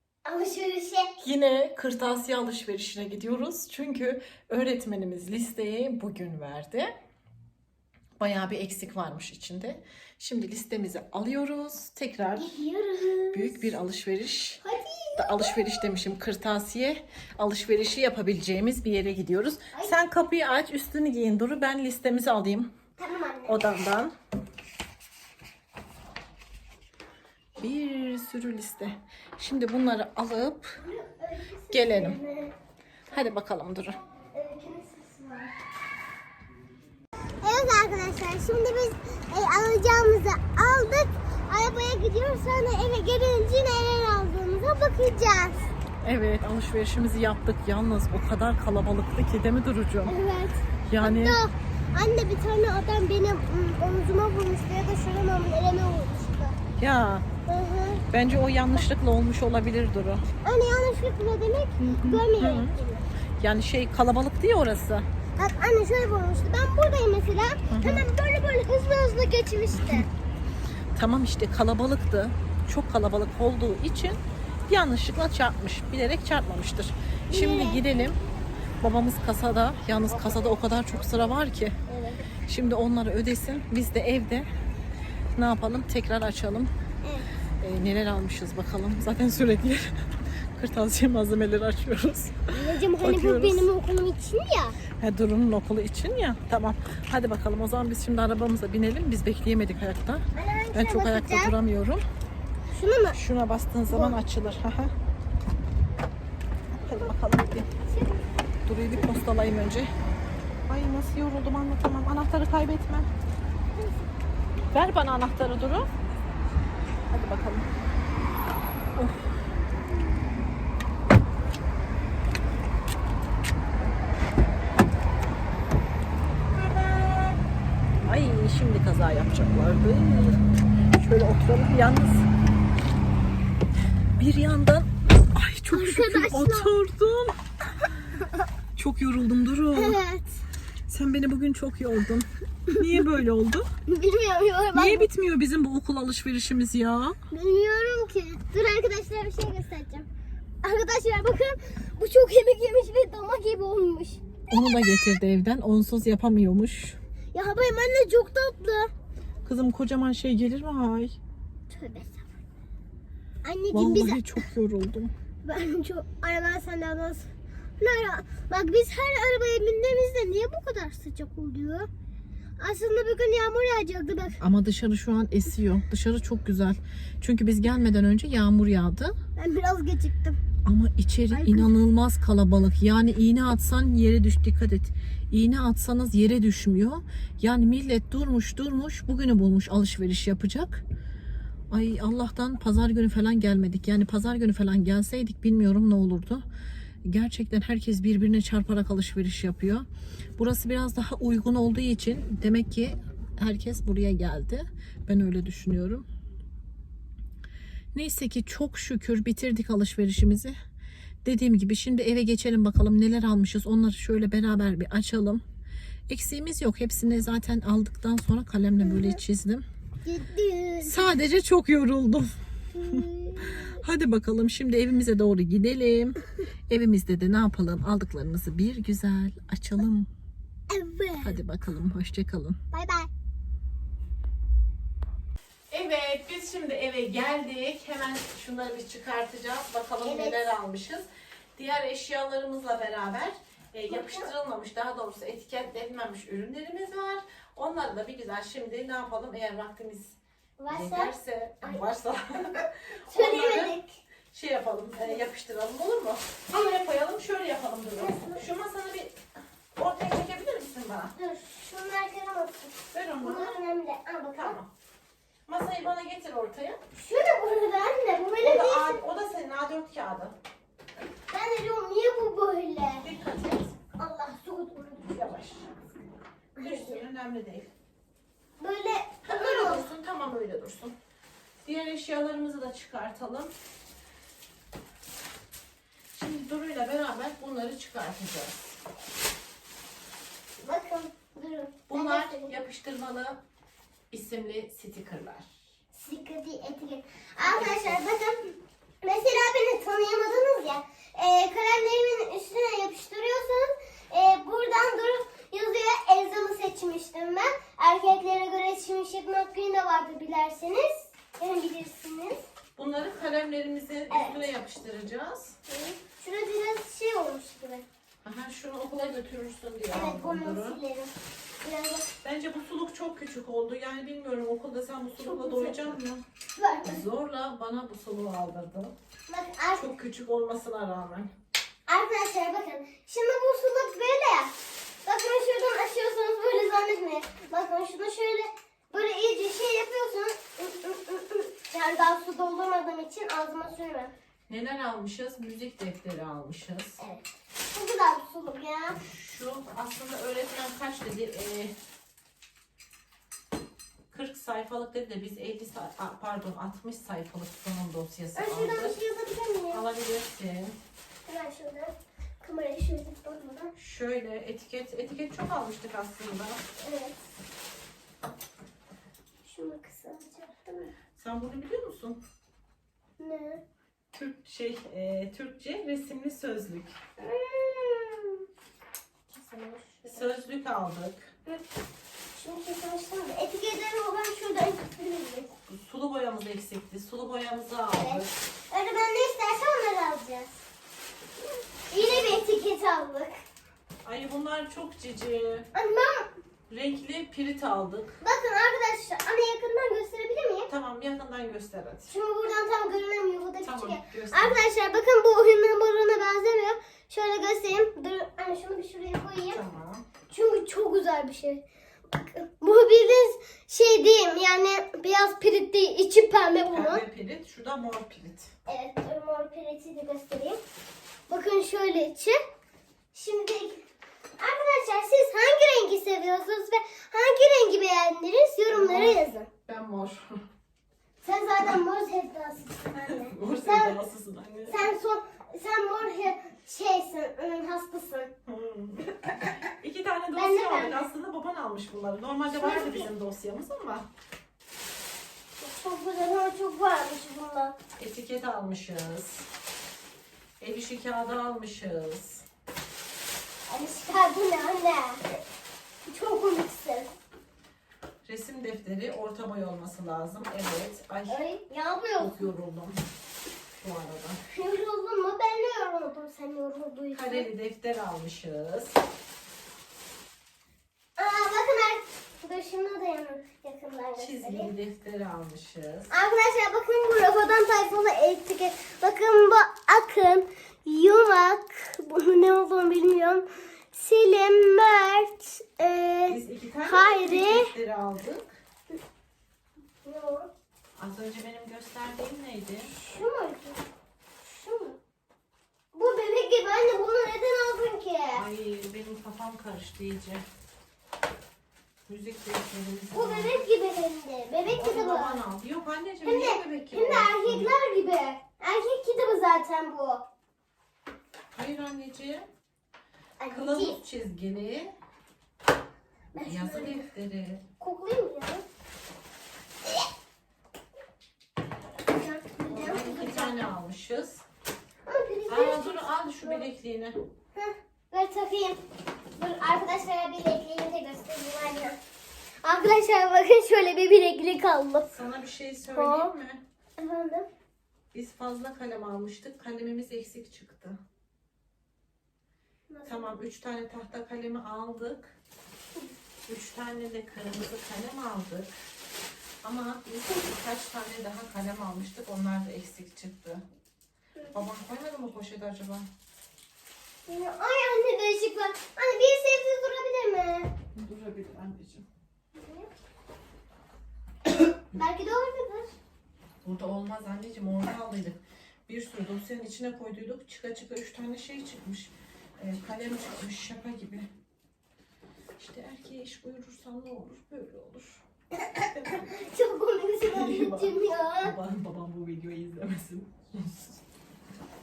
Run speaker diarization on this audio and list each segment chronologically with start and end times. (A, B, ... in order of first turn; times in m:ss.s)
0:00.2-0:01.1 A
0:01.2-0:06.9 B
0:08.2-0:12.6 B
0:12.4-0:13.7 A
0:13.3-0:14.6 B
0:14.6-0:15.8 A
0:15.2-0:22.7 B
0:23.0-0:23.6 A
0:23.5-0:24.1 B
0:27.6-0:30.8 B
0:30.8-0:32.5 A
0:31.7-0:32.2 B
0:33.1-0:34.0 B
0:34.3-0:35.5 A
0:37.4-0:45.7 A
0:46.0-0:50.2 B
0:50.0-0:56.6 A
0:50.8-0:51.4 B
0:56.8-0:57.2 B
0:57.4-0:58.0 A
0:58.1-1:00.2 B
1:00.4-1:03.0 A
1:01.8-1:02.7 B
1:03.4-1:05.1 B
1:05.4-1:10.1 A
1:07.7-1:08.0 B
1:11.0-1:18.2 B
1:17.3-1:17.9 A
1:18.8-1:21.8 B
1:21.9-1:22.3 A
1:22.5-1:24.5 B
1:25.4-1:26.7 B
1:27.0-1:27.3 A
1:27.6-1:33.7 B
1:32.5-1:34.8 A
1:35.0-1:42.0 B
1:40.3-1:41.5 A
1:42.7-1:43.2 A
1:43.1-1:44.9 B
1:43.9-1:44.2 A
1:46.8-1:47.7 B
1:47.9-1:48.2 A
1:48.7-1:49.9 B
1:50.7-1:53.1 B
1:54.7-1:55.9 B
1:57.1-1:57.7 B
1:59.0-1:59.3 B
2:08.0-2:10.4 B
2:11.0-2:12.3 B
2:14.2-2:17.4 B
2:15.7-2:16.7 A
2:18.8-2:20.0 B
2:19.7-2:20.4 A
2:20.9-2:23.6 B
2:23.9-2:25.1 A
2:24.7-2:27.2 B
2:27.3-2:30.1 A
2:30.6-2:35.1 A
2:34.5-2:37.0 B
2:37.3-2:38.9 A
2:39.4-2:41.2 B
2:41.7-2:42.3 A
2:43.4-2:44.4 A
2:43.7-2:45.1 B
2:45.4-2:51.9 A
2:52.6-2:54.4 A
2:54.4-2:59.1 B
2:59.4-3:00.4 A
3:00.6-3:10.8 B
3:01.3-3:01.7 A
3:11.7-3:16.4 B
3:17.0-3:19.8 B
3:20.4-3:26.0 B
3:27.9-3:30.5 B
3:31.2-3:35.4 B
3:36.1-3:39.6 B
3:38.8-3:39.2 A
3:40.0-3:41.2 A
3:40.8-3:42.3 B
3:42.7-3:43.8 A
3:42.8-3:50.1 B
3:50.7-3:51.4 A
3:51.2-3:52.6 B
3:52.7-3:53.1 A
3:55.7-4:10.2 B
4:00.0-4:00.6 A
4:03.9-4:04.3 A
4:10.6-4:11.8 A
4:10.7-4:13.7 B
4:12.6-4:14.0 A
4:14.3-4:19.1 B
4:18.0-4:18.4 A
4:19.8-4:21.1 B
4:21.2-4:24.5 A
4:22.9-4:23.6 B
4:24.3-4:24.7 B
4:25.5-4:26.8 B
4:26.9-4:29.0 A
4:28.4-4:30.3 B
4:31.3-4:33.0 A
4:33.0-4:33.7 B
4:33.9-4:35.2 A
4:35.1-4:35.7 B
4:36.6-4:37.0 A
4:36.6-4:37.7 B
4:38.6-4:39.9 A
4:39.3-4:40.9 B
4:41.6-4:43.5 B
4:46.1-4:48.8 B
4:50.6-4:52.6 A
4:51.9-4:53.4 B
4:54.1-4:55.5 B
4:55.9-5:12.4 A
4:57.4-4:58.0 B
5:12.8-5:15.6 B
5:14.1-5:14.5 A
5:15.7-5:17.8 A
5:18.2-5:20.8 B
5:19.9-5:22.1 A
5:22.2-5:26.2 B
5:25.2-5:25.9 A
5:26.6-5:27.0 A
5:26.8-5:28.9 B
5:29.3-5:29.9 A
5:29.8-5:31.3 B
5:31.9-5:34.5 A
5:35.0-5:44.1 A
5:44.5-5:47.0 B
5:47.0-5:49.0 A
5:49.0-5:51.7 B
5:54.1-5:59.0 B
5:58.3-5:59.8 A
5:59.7-6:00.8 B
6:01.3-6:03.7 A
6:03.8-6:06.6 B
6:06.8-6:07.2 A
6:09.4-6:10.9 A
6:11.2-6:12.2 B
6:13.2-6:13.6 A
6:14.1-6:17.0 B
6:17.2-6:18.4 A
6:19.3-6:20.3 A
6:20.0-6:21.3 B
6:22.3-6:25.5 A
6:25.7-6:28.3 B
6:27.9-6:30.6 A
6:31.9-6:33.3 A
6:32.0-6:32.4 B
6:34.0-6:35.7 B
6:35.7-6:36.3 A
6:36.7-6:38.2 B
6:38.2-6:40.7 A
6:40.7-6:42.1 B
6:42.1-6:49.6 A
6:43.6-6:44.6 B
6:49.5-6:50.0 B
6:50.3-6:57.0 A
6:56.7-6:58.5 B
6:58.7-7:00.6 A
7:01.3-7:02.4 A
7:03.1-7:03.8 A
7:04.4-7:09.5 A
7:08.7-7:10.4 B
7:11.2-7:14.0 A
7:12.9-7:14.9 B
7:14.7-7:18.3 A
7:18.4-7:24.1 B
7:20.4-7:21.0 A
7:22.5-7:23.1 A
7:25.6-7:27.8 A
7:28.0-7:29.4 B
7:30.6-7:32.4 B
7:33.7-7:35.4 A
7:36.0-7:37.1 A
7:38.2-7:41.4 B
7:41.3-7:42.4 A
7:42.2-7:43.0 B
7:43.8-7:44.4 B
7:44.5-7:47.5 A
7:47.1-7:49.0 B
7:51.2-7:54.7 A
7:54.2-7:56.1 B
7:56.1-8:07.7 A
8:06.3-8:08.5 B
8:10.0-8:10.5 A
8:11.0-8:12.9 B
8:12.8-8:13.8 A
8:14.4-8:15.0 A
8:15.9-8:18.4 A
8:18.3-8:20.4 B
8:22.0-8:23.6 B
8:23.1-8:25.4 A
8:24.8-8:27.7 B
8:26.2-8:30.2 A
8:31.5-8:32.4 B
8:33.4-8:34.0 A
8:33.5-8:34.9 B
8:36.3-8:37.0 A
8:36.4-8:37.6 B
8:37.8-8:38.6 A
8:42.1-8:43.6 A
8:42.7-8:44.4 B
8:45.0-8:46.6 A
8:45.5-8:47.2 B
8:47.5-8:48.8 A
8:49.4-8:52.0 A
8:52.6-8:55.1 A
8:55.0-8:56.6 B
8:55.9-8:56.3 A
8:57.0-8:57.5 A
8:58.1-9:01.0 B
9:02.9-9:03.3 A
9:03.0-9:05.4 B
9:06.5-9:08.7 B
9:09.6-9:13.6 B
9:14.4-9:14.6 A
9:14.5-9:16.1 B
9:17.3-9:20.7 A
9:20.9-9:22.0 B
9:22.5-9:22.9 A
9:24.9-9:25.9 A
9:26.6-9:34.3 B
9:35.6-9:38.2 B
9:38.6-9:41.5 A
9:38.9-9:39.2 B
9:40.2-9:44.0 B